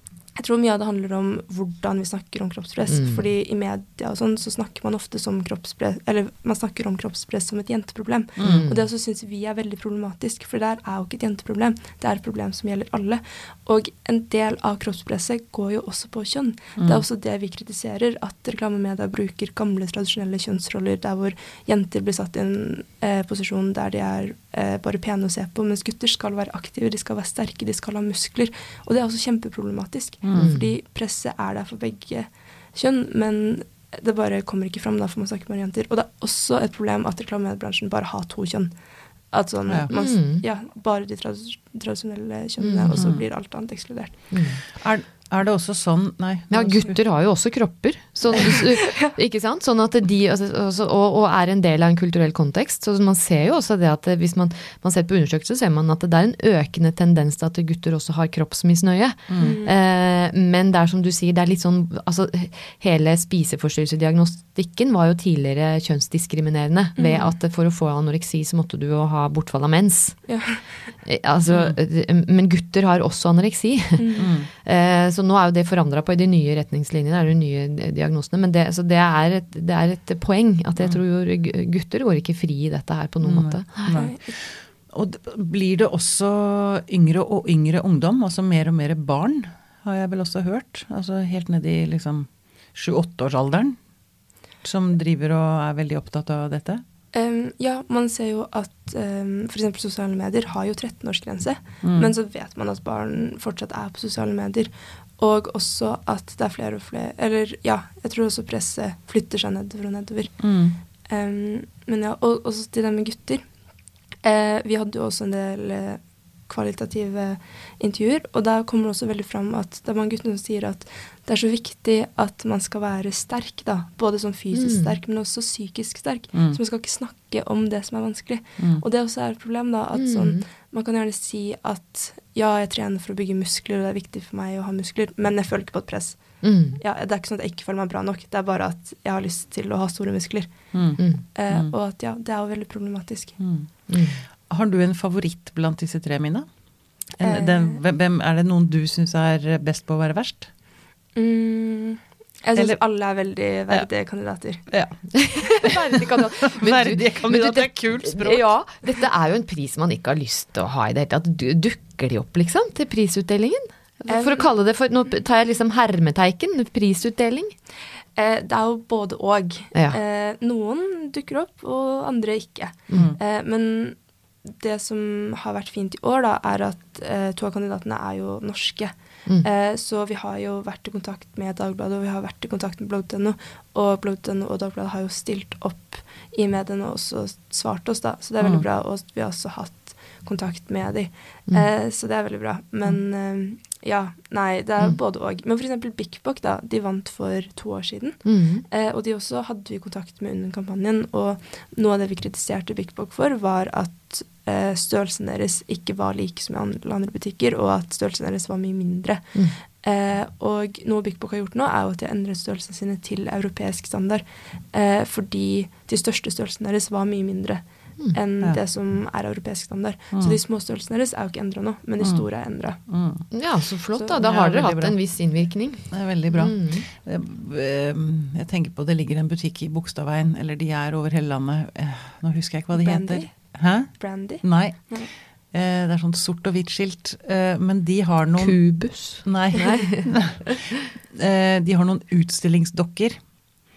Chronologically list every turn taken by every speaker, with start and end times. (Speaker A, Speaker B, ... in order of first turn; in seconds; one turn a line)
Speaker A: 0.3-38.7
Speaker B: 2.9-3.2
Speaker C: 8.4-8.6
Speaker B: 8.4-8.8
Speaker C: 16.8-17.0
Speaker C: 30.2-30.6
Speaker B: 30.3-30.7
Speaker A: 39.3-44.3
Speaker B: 39.9-40.4
Speaker B: 42.6-43.1
Speaker C: 42.9-43.2
Speaker B: 44.3-44.6
Speaker C: 44.8-46.9
Speaker B: 46.5-70.3
Speaker C: 59.3-59.6
Speaker A: 59.4-59.7
Speaker A: 67.0-67.3
Speaker A: 70.3-70.8
Speaker B: 71.0-74.1
Speaker C: 71.5-71.8
Speaker A: 74.0-74.3
Speaker C: 74.2-74.5
Speaker B: 74.6-84.0
Speaker C: 83.2-84.3
Speaker A: 83.9-84.3
Speaker C: 84.9-93.8
Speaker C: 94.6-96.8
Speaker A: 97.1-110.5
Speaker C: 101.8-102.1
Speaker C: 110.4-110.8
Speaker A: 111.1-113.5
Speaker A: 114.2-140.7
Speaker B: 124.5-125.0
Speaker C: 126.3-126.6
Speaker B: 129.9-130.4
Speaker B: 136.4-136.8
Speaker C: 140.7-141.7
Speaker A: 141.3-143.4
Speaker C: 143.4-143.7
Speaker B: 143.9-144.2
Speaker C: 144.5-146.5
Speaker C: 147.1-150.5
Speaker A: 147.2-147.8
Speaker A: 151.1-154.7
Speaker C: 154.7-154.9
Speaker B: 155.1-167.5
Speaker C: 156.4-158.5
Speaker A: 164.1-164.5
Speaker A: 168.2-222.8
Speaker C: 188.4-188.6
Speaker B: 198.2-198.6
Speaker C: 222.0-222.2
Speaker C: 222.9-223.3
Speaker B: 223.3-226.9
Speaker C: 224.1-225.0
Speaker C: 225.9-235.0
Speaker A: 232.7-235.1
Speaker C: 235.5-238.6
Speaker B: 238.4-240.6
Speaker C: 239.1-243.2